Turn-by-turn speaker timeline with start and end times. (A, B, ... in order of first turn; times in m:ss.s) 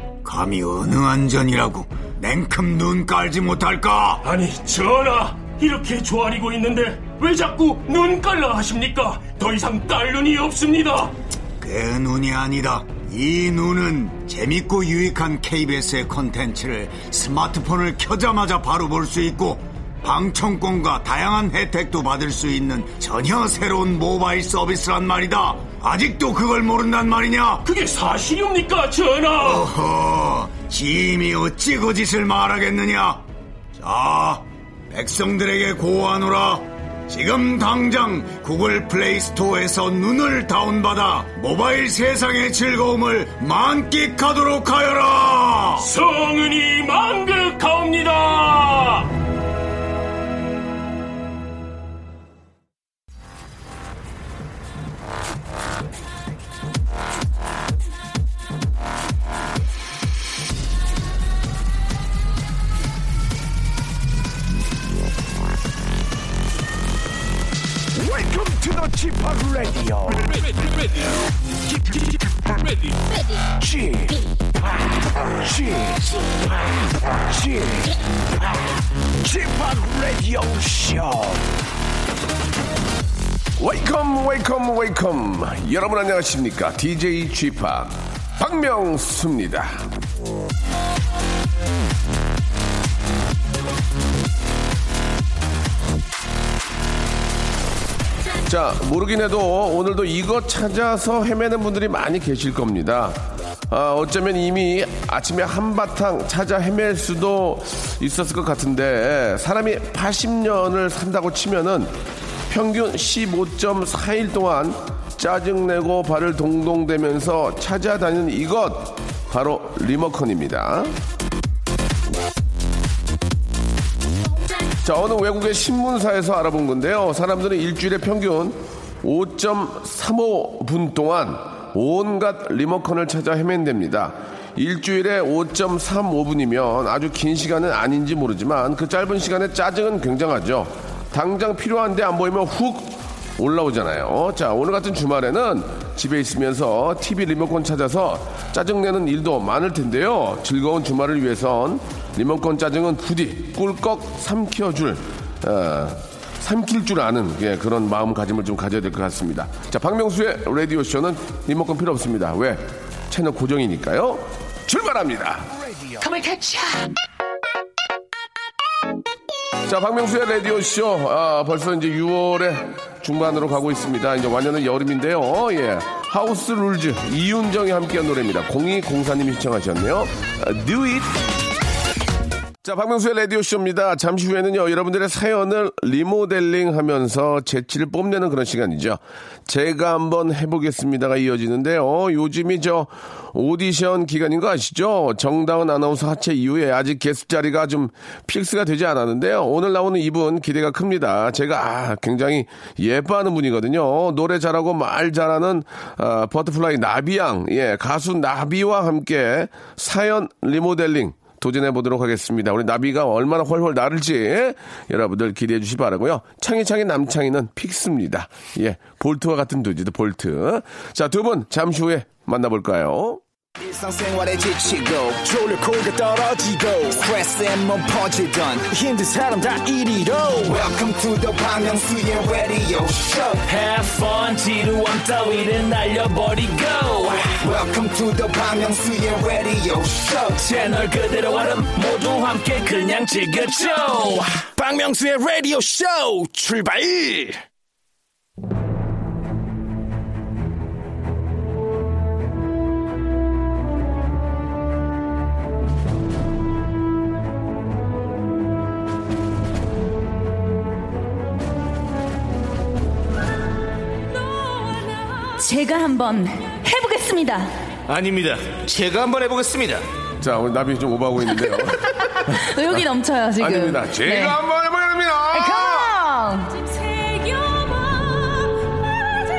0:00.2-0:04.2 A
0:04.2-0:11.1 B
0:11.6-0:27.7 A
0:27.6-0:29.7 B
0:29.4-0:33.2 A
0:33.8-0:45.9 A
0:45.8-0:49.1 B
1:08.0-1:11.0 C
1:11.6-1:13.0 C
1:13.5-1:16.7 C
1:17.3-1:18.6 C
1:19.2-1:21.5 C
1:23.6-1:29.9 D
1:38.4-1:52.0 D
1:52.5-2:01.0 D
2:04.8-2:45.5 D
2:46.0-2:46.6 E
2:49.6-3:01.2 D
3:02.6-3:43.2 D
3:43.6-3:53.4 F
3:53.5-3:57.4 E
3:57.4-4:00.4 F
4:00.4-4:04.4 E
4:04.4-4:07.4 C
4:25.4-4:27.5 G
4:27.9-4:29.8 H
4:30.2-4:31.8 D
4:32.3-4:34.4 G
4:33.4-4:35.9 D
4:35.3-4:37.7 G